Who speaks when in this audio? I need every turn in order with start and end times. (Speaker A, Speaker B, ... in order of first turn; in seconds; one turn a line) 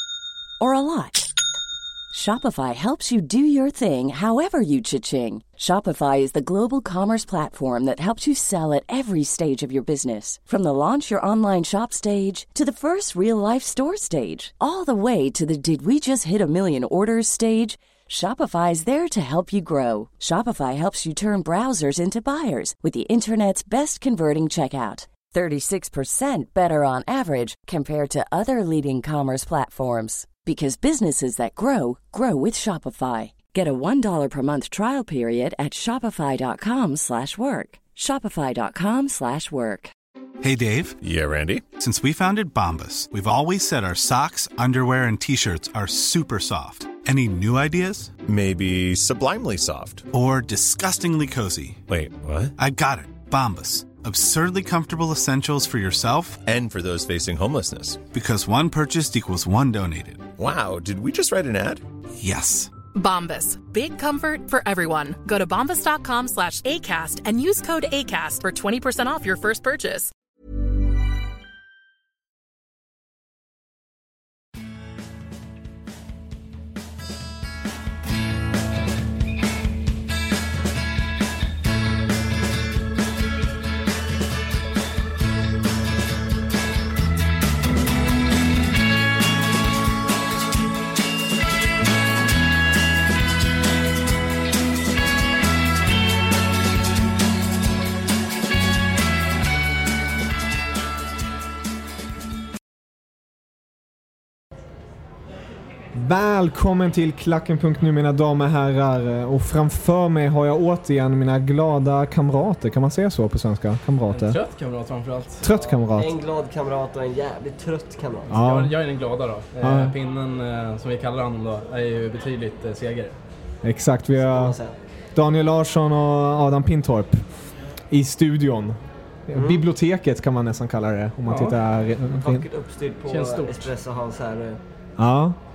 Speaker A: 0.6-1.3
Speaker A: 2.1-39.9
Speaker B: 40.4-41.0
Speaker C: 41.0-41.7
Speaker B: 41.7-48.1
Speaker C: 48.2-50.1
Speaker B: 50.1-51.8
Speaker C: 51.9-52.5
Speaker B: 52.6-56.4
Speaker C: 56.5-58.1
Speaker B: 58.1-60.3
Speaker C: 60.4-61.8
Speaker B: 62.2-62.7
Speaker D: 62.9-70.1
Speaker E: 105.9-114.4
Speaker F: 114.1-115.4
Speaker E: 115.4-116.1
Speaker G: 115.5-118.3
Speaker E: 118.3-118.7
Speaker F: 118.4-123.1
Speaker E: 119.6-119.9
Speaker E: 123.6-124.5
Speaker G: 124.2-124.8
Speaker E: 125.1-132.4
Speaker G: 129.3-129.6
Speaker F: 131.3-131.6
Speaker G: 132.1-134.6
Speaker F: 133.1-133.7
Speaker E: 135.0-135.4